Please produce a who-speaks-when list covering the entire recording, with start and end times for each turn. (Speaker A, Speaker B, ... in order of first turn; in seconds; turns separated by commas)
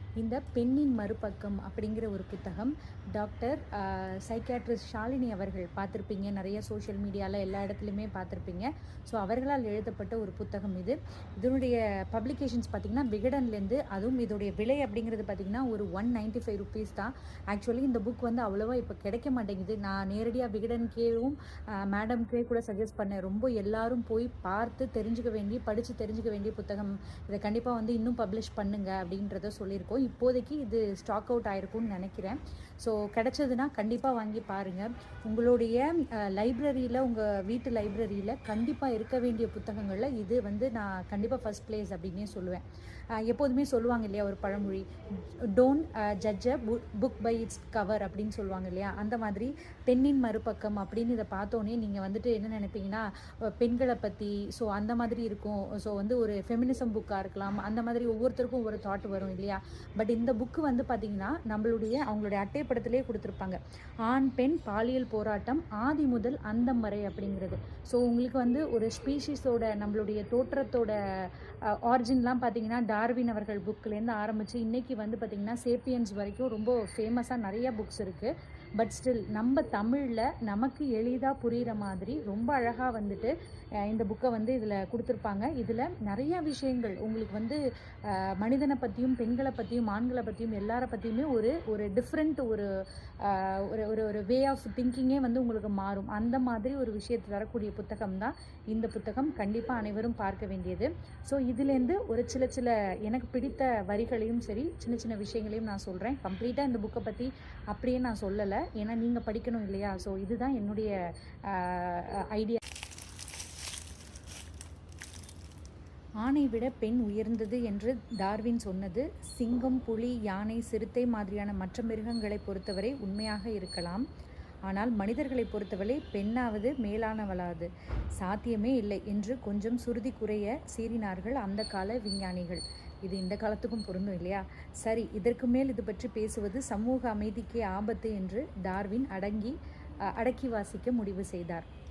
Speaker A: 0.2-42.6, Speaker A: 43.2-44.9, Speaker A: 45.5-53.1, Speaker A: 53.6-83.3, Speaker A: 83.8-92.7, Speaker A: 93.2-110.9, Speaker A: 111.5-112.6, Speaker A: 116.2-124.0, Speaker A: 124.7-127.7, Speaker A: 128.2-139.6, Speaker A: 140.2-141.7